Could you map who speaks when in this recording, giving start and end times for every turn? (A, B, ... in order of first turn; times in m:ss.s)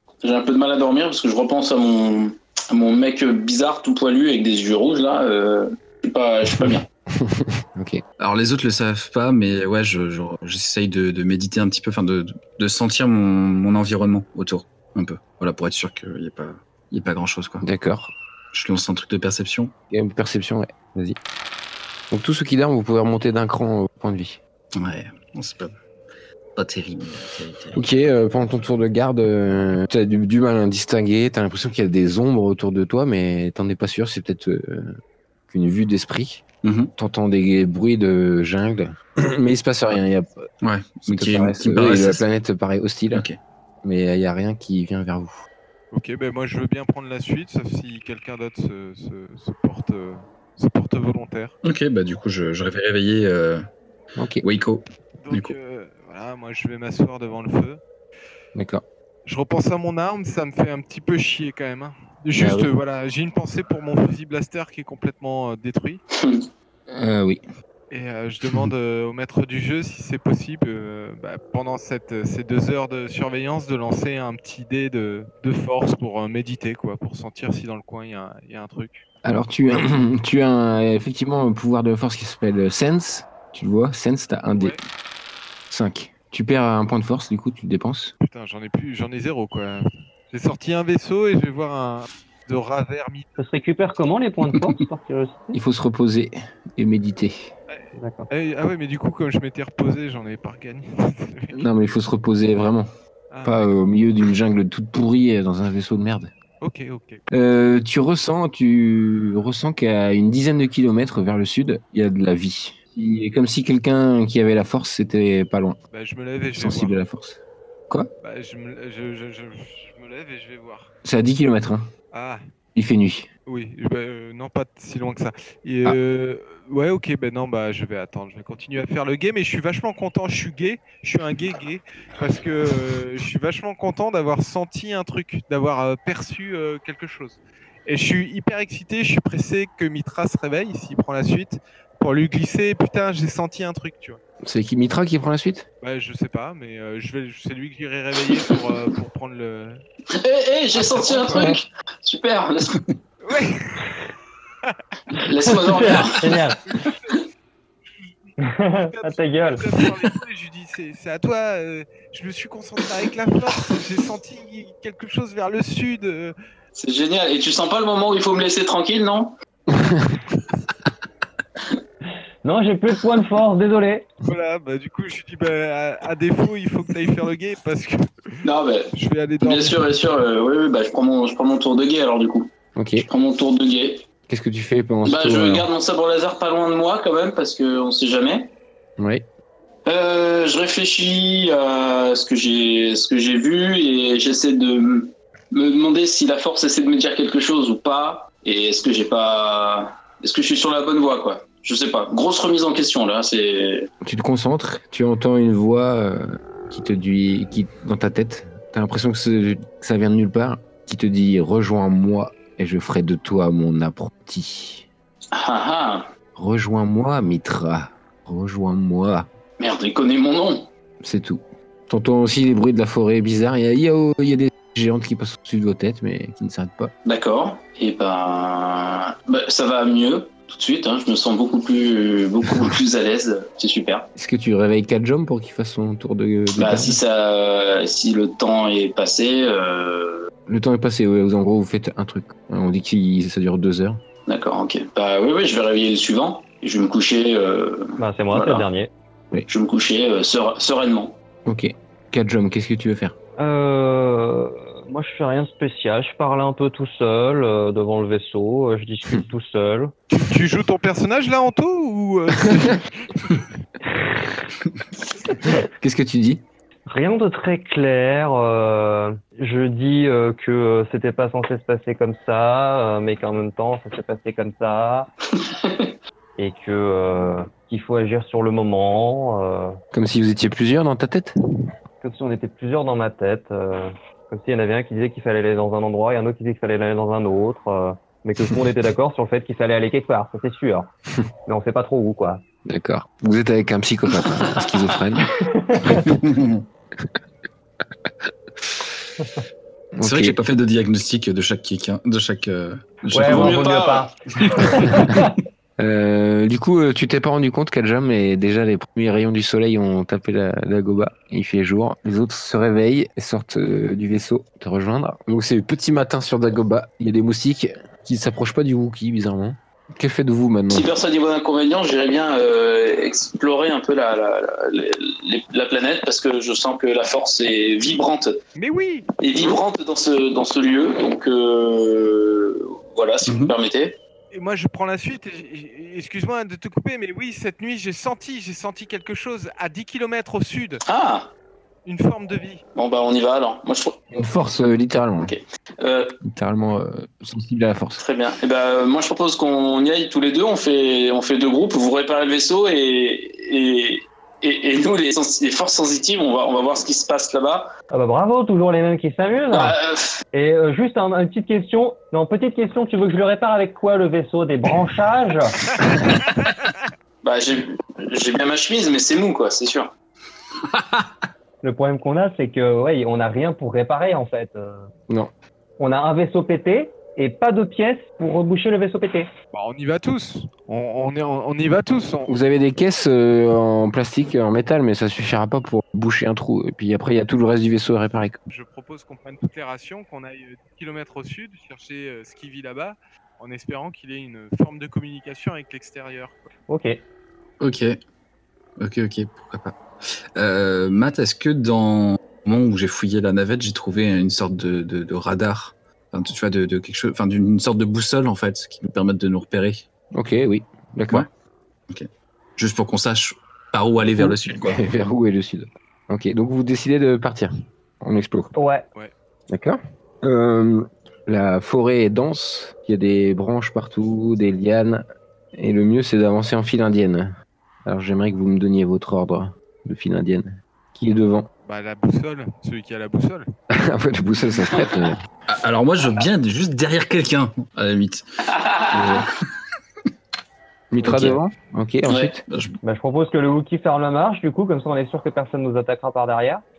0:00.2-0:06.8 A
0:06.6-0:08.0 B
0:08.2-0:17.6 C
0:17.6-0:18.1 B
0:18.5-0:19.7 C
0:19.9-0:21.2 B
0:22.1-0:24.4 B
0:24.8-0:25.7 C
0:26.5-0:27.8 C
0:27.7-0:35.0 B
0:35.5-0:36.4 B
0:36.6-0:36.9 C
0:37.0-0:40.5 B
0:40.6-0:42.2 C
0:41.0-0:43.2 B
0:43.1-0:43.4 C
0:43.8-0:45.4 B
0:45.9-0:51.6 D
0:51.6-0:53.6 C
0:54.2-0:54.4 B
0:54.4-0:55.5 C
0:55.2-0:57.8 D
0:58.5-0:58.8 B
0:59.2-1:06.0 D
1:02.4-1:02.7 B
1:06.1-1:06.5 A
1:06.9-1:07.4 B
1:07.9-1:19.0 D
1:19.2-1:24.8 B
1:25.7-1:28.1 B
1:28.2-1:33.3 D
1:33.4-1:35.6 E
1:35.5-1:37.5 B
1:37.7-1:41.6 D
1:38.0-1:38.3 E
1:41.5-1:42.9 B
1:43.3-1:43.7 D
1:43.4-1:46.3 B
1:46.6-1:47.2 D
1:47.3-1:55.8 B
1:55.9-1:57.0 D
1:56.6-1:58.1 B
1:58.2-2:00.9 D
2:01.0-2:01.9 B
2:02.1-2:02.4 D
2:02.7-2:03.3 B
2:03.5-2:24.2 D
2:24.4-2:25.6 B
2:25.8-2:29.8 D
2:30.1-2:32.8 A
2:30.7-2:31.5 D
2:33.2-2:34.0 D
2:35.1-2:36.3 A
2:35.4-2:36.6 E
2:36.7-2:37.2 D
2:38.0-2:38.4 D
2:38.4-2:39.6 E
2:38.9-2:46.3 D
2:46.7-2:49.4 A
2:49.7-2:50.1 B
2:52.4-2:54.1 E
2:54.3-2:58.3 D
2:58.4-3:02.5 A
2:58.9-2:59.9 D
3:02.8-3:03.1 B
3:03.0-3:04.0 A
3:04.3-3:05.7 B
3:05.0-3:08.5 A
3:09.0-3:09.2 B
3:09.8-3:23.9 A
3:24.0-3:34.9 B
3:35.3-3:36.1 A
3:36.3-3:39.3 B
3:39.6-3:40.7 A
3:41.0-3:46.9 B
3:47.0-3:54.1 A
3:54.2-3:57.0 B
3:56.6-4:00.3 A
4:00.5-4:04.0 B
4:04.3-4:08.7 A
4:08.0-4:08.9 E
4:09.5-4:11.1 A
4:11.4-4:13.1 B
4:13.4-4:19.9 E
4:20.1-4:23.4 D
4:25.5-4:26.4 B
4:26.9-4:35.1 E
4:35.4-4:35.9 A
4:36.4-4:39.8 E
4:39.9-4:41.3 B
4:42.0-4:50.9 E
4:51.5-4:52.4 E
4:52.6-4:55.3 B
4:55.4-4:56.0 E
4:56.0-4:56.6 C
5:00.0-5:00.4 B
5:00.0-5:03.6 C
5:03.1-5:05.3 E
5:03.3-5:04.1 A
5:05.8-5:20.9 B
5:20.7-5:28.4 A
5:28.6-5:29.1 D
5:29.2-5:34.0 A
5:33.3-5:33.5 C
5:34.3-5:40.8 D
5:40.8-5:41.3 A
5:41.8-5:42.6 D
5:42.7-5:44.0 A
5:44.1-5:45.3 B
5:45.2-5:46.2 A
5:46.2-5:48.0 B
5:48.0-5:57.7 A
5:57.9-5:59.8 E
5:59.5-6:00.2 A
6:00.3-6:05.6 E
6:07.2-6:09.9 A
6:11.6-6:14.9 E
6:15.8-6:19.3 E
6:19.5-6:22.3 D
6:22.2-6:28.4 B
6:28.5-6:36.4 D
6:36.7-6:37.0 E
6:37.6-6:38.0 C
6:38.8-6:39.8 C
6:40.4-6:49.9 C
6:50.1-6:51.2 B
6:51.9-6:54.8 C
6:54.2-6:58.5 B
6:58.5-6:58.8 E
6:59.5-7:07.3 B
7:07.8-7:11.5 B
7:11.6-7:13.4 D
7:13.7-7:15.2 B
7:15.5-7:18.2 C
7:18.6-7:19.2 A
7:18.9-7:19.3 B
7:20.9-7:22.4 B
7:21.0-7:21.4 C
7:22.1-7:22.3 A
7:22.5-7:22.8 C
7:22.8-7:26.6 E